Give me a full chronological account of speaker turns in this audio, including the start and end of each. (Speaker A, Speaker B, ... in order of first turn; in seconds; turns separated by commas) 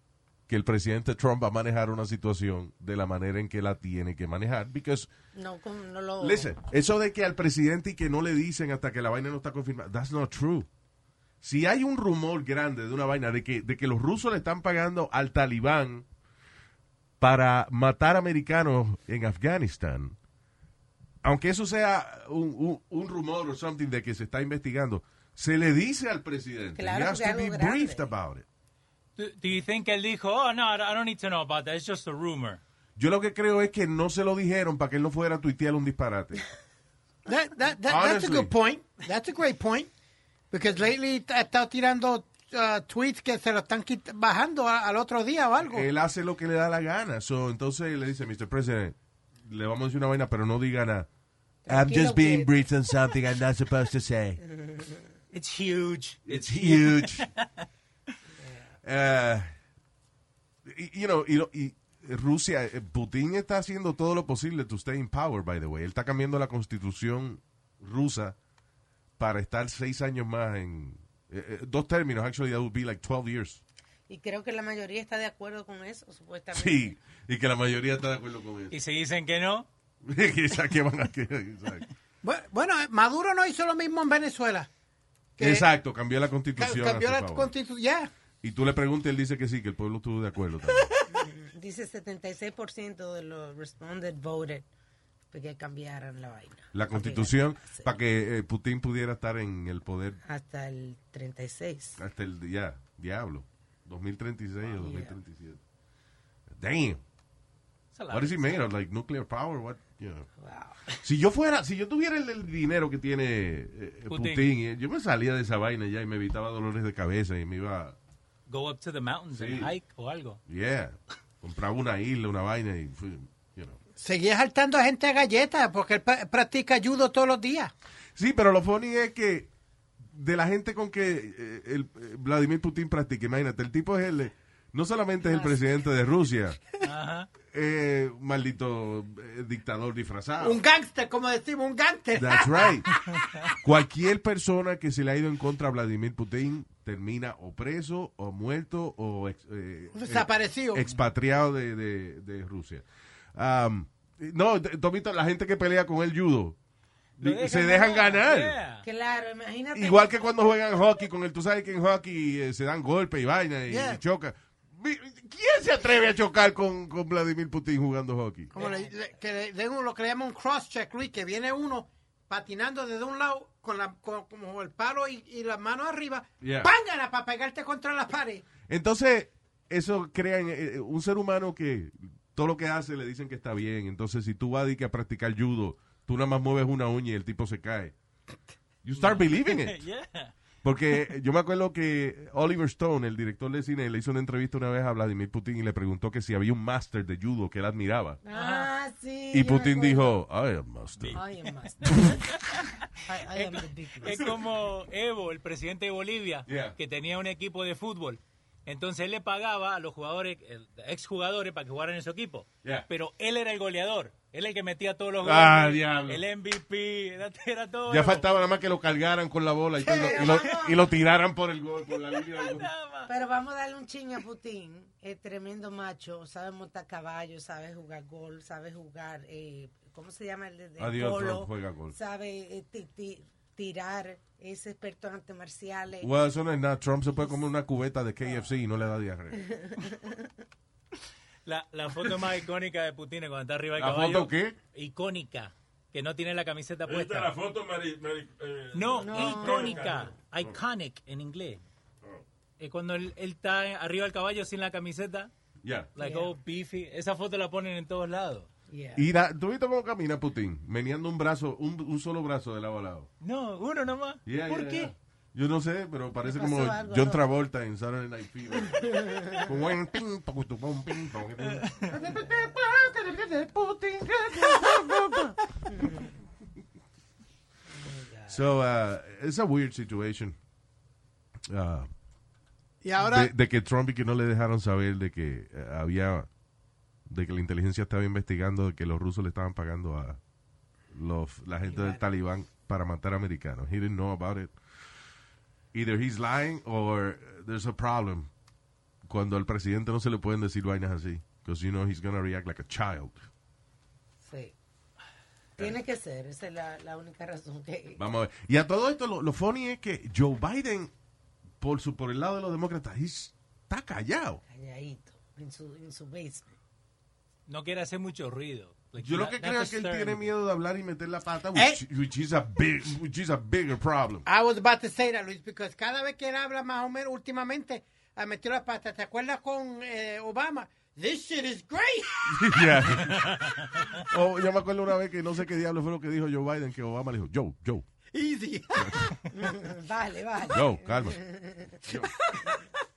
Speaker A: 0.5-5.1, Speaker B: 5.3-6.5, Speaker A: 6.2-10.7, Speaker A: 11.4-16.1, Speaker A: 17.2-20.1, Speaker A: 21.2-28.4, Speaker B: 26.8-28.1, Speaker C: 29.2-32.6, Speaker A: 33.0-36.4, Speaker D: 37.2-39.9, Speaker A: 37.9-38.5, Speaker D: 40.5-45.9, Speaker A: 45.6-51.1, Speaker B: 51.6-52.5, Speaker A: 51.7-54.4, Speaker B: 54.4-55.0, Speaker C: 55.3-57.5, Speaker A: 56.2-57.3, Speaker A: 58.8-59.5, Speaker A: 60.6-68.3, Speaker A: 69.2-73.6, Speaker B: 74.1-77.0, Speaker A: 76.5-78.7, Speaker C: 78.7-79.7, Speaker A: 80.0-81.9, Speaker D: 82.2-84.7, Speaker D: 85.4-85.7, Speaker A: 85.4-87.5, Speaker D: 86.6-88.1, Speaker A: 88.4-90.9, Speaker B: 91.1-94.7, Speaker B: 95.3-97.9, Speaker A: 96.7-100.2, Speaker B: 100.2-102.0, Speaker A: 102.0-105.6, Speaker B: 104.8-105.2, Speaker A: 106.5-107.0, Speaker C: 107.9-108.7, Speaker A: 108.1-110.3, Speaker B: 110.4-111.0, Speaker A: 111.0-118.0, Speaker C: 114.1-114.5, Speaker C: 118.5-120.4, Speaker A: 119.3-119.7, Speaker A: 120.5-123.8, Speaker D: 124.0-127.7, Speaker A: 128.2-129.5, Speaker A: 130.1-136.6, Speaker B: 135.2-135.6, Speaker C: 136.8-137.3, Speaker A: 137.5-140.6, Speaker D: 140.4-143.0, Speaker A: 142.1-143.0, Speaker A: 143.6-152.8, Speaker D: 149.9-150.8, Speaker A: 153.3-156.6, Speaker C: 157.2-158.8, Speaker A: 157.2-158.6, Speaker B: 158.8-160.4, Speaker A: 159.7-168.5, Speaker D: 163.7-164.0, Speaker D: 168.5-178.4, Speaker B: 168.5-168.9, Speaker A: 176.4-176.7, Speaker A: 178.7-187.9, Speaker A: 188.8-189.8, Speaker C: 188.9-190.3, Speaker A: 190.6-198.2, Speaker B: 198.2-200.2, Speaker C: 198.3-198.7, Speaker A: 199.3-201.2, Speaker B: 201.1-202.1, Speaker A: 201.8-202.2, Speaker B: 203.0-204.2, Speaker C: 203.3-218.3, Speaker A: 206.5-206.8, Speaker A: 215.2-216.2, Speaker A: 217.9-222.7, Speaker B: 219.8-220.8, Speaker C: 222.1-223.1, Speaker B: 223.1-236.1, Speaker A: 230.8-231.9, Speaker A: 236.0-239.5, Speaker B: 239.3-240.2, Speaker C: 241.4-247.3, Speaker A: 243.8-244.6, Speaker E: 246.8-250.5, Speaker C: 248.7-251.6, Speaker B: 249.0-250.0, Speaker C: 252.6-255.3, Speaker A: 255.6-255.9, Speaker C: 255.9-258.5, Speaker B: 256.0-256.4, Speaker B: 258.7-259.1, Speaker A: 258.9-263.1, Speaker C: 263.2-264.9, Speaker A: 264.2-275.4, Speaker B: 266.2-267.2, Speaker B: 268.9-269.4, Speaker C: 271.5-271.9, Speaker B: 275.7-276.1, Speaker B: 277.7-278.4, Speaker A: 278.3-280.4, Speaker A: 281.5-281.9, Speaker D: 282.8-283.3, Speaker A: 283.0-286.3, Speaker A: 287.1-290.2, Speaker A: 290.9-294.5, Speaker D: 291.7-292.0, Speaker A: 295.7-298.3, Speaker A: 299.1-303.2, Speaker B: 304.2-304.5, Speaker B: 305.6-308.0, Speaker A: 308.0-310.9, Speaker A: 311.6-314.4, Speaker B: 314.5-316.5, Speaker C: 317.5-320.3, Speaker A: 319.0-324.2, Speaker D: 321.5-321.8, Speaker D: 324.2-333.2, Speaker A: 332.3-337.9, Speaker D: 338.1-339.3, Speaker A: 338.8-339.1, Speaker B: 339.3-341.8, Speaker A: 340.5-341.2, Speaker A: 341.8-342.1, Speaker D: 342.0-342.6